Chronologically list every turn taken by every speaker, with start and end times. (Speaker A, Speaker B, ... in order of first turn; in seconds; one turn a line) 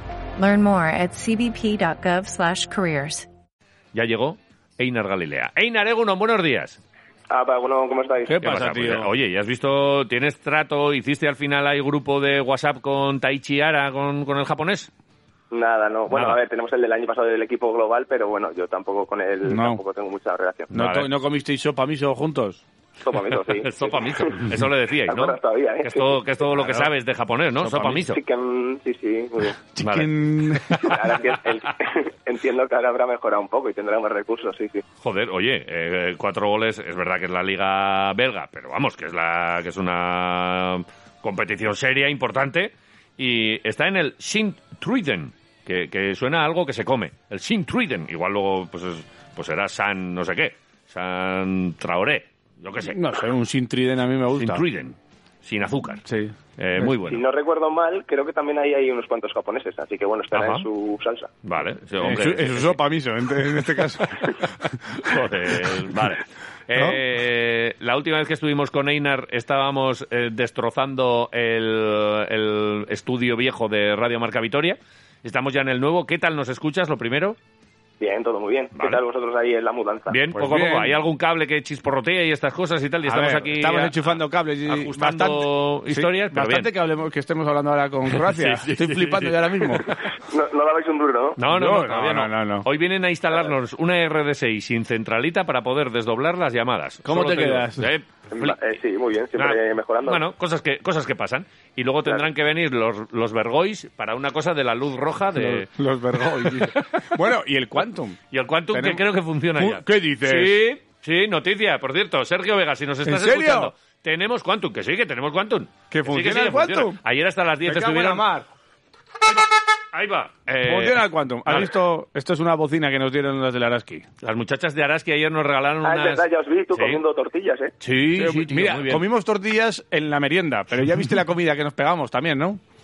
Speaker A: 0.4-3.3
Speaker B: 3.9-6.8
Speaker C: 7.3-8.5
Speaker D: 8.2-9.1
Speaker B: 8.4-14.9
Speaker C: 15.5-20.7
Speaker B: 16.1-16.4
Speaker D: 19.5-19.8
Speaker B: 20.7-21.1
Speaker D: 20.7-22.6
Speaker C: 23.0-26.2
Speaker B: 23.2-28.2
Speaker D: 27.6-28.0
Speaker C: 28.0-29.6
Speaker D: 29.8-30.9
Speaker B: 29.8-31.6
Speaker C: 30.8-34.8
Speaker B: 35.0-53.0
Speaker D: 52.8-54.6
Speaker B: 54.3-56.0
Speaker D: 56.0-56.9
Speaker B: 56.6-57.2
Speaker C: 57.1-61.3
Speaker B: 60.3-60.6
Speaker B: 61.4-62.8
Speaker D: 62.0-65.2
Speaker B: 63.6-64.3
Speaker B: 65.0-77.4
Speaker D: 66.7-67.0
Speaker C: 78.0-80.2
Speaker B: 78.7-79.0
Speaker B: 80.1-86.7
Speaker D: 80.3-81.0
Speaker D: 83.0-89.8
Speaker B: 88.1-90.1
Speaker C: 90.2-91.4
Speaker B: 91.4-98.6
Speaker D: 91.5-92.7
Speaker D: 97.0-97.9
Speaker C: 98.3-100.2
Speaker B: 99.3-107.2
Speaker D: 105.3-108.2
Speaker B: 108.3-118.2
Speaker D: 108.7-109.0
Speaker D: 109.5-110.6
Speaker D: 113.0-113.7
Speaker D: 115.9-117.0
Speaker D: 117.6-118.5
Speaker B: 119.3-121.7
Speaker D: 120.6-124.0
Speaker B: 124.2-127.0
Speaker C: 125.8-127.7
Speaker B: 127.8-129.1
Speaker D: 128.1-132.6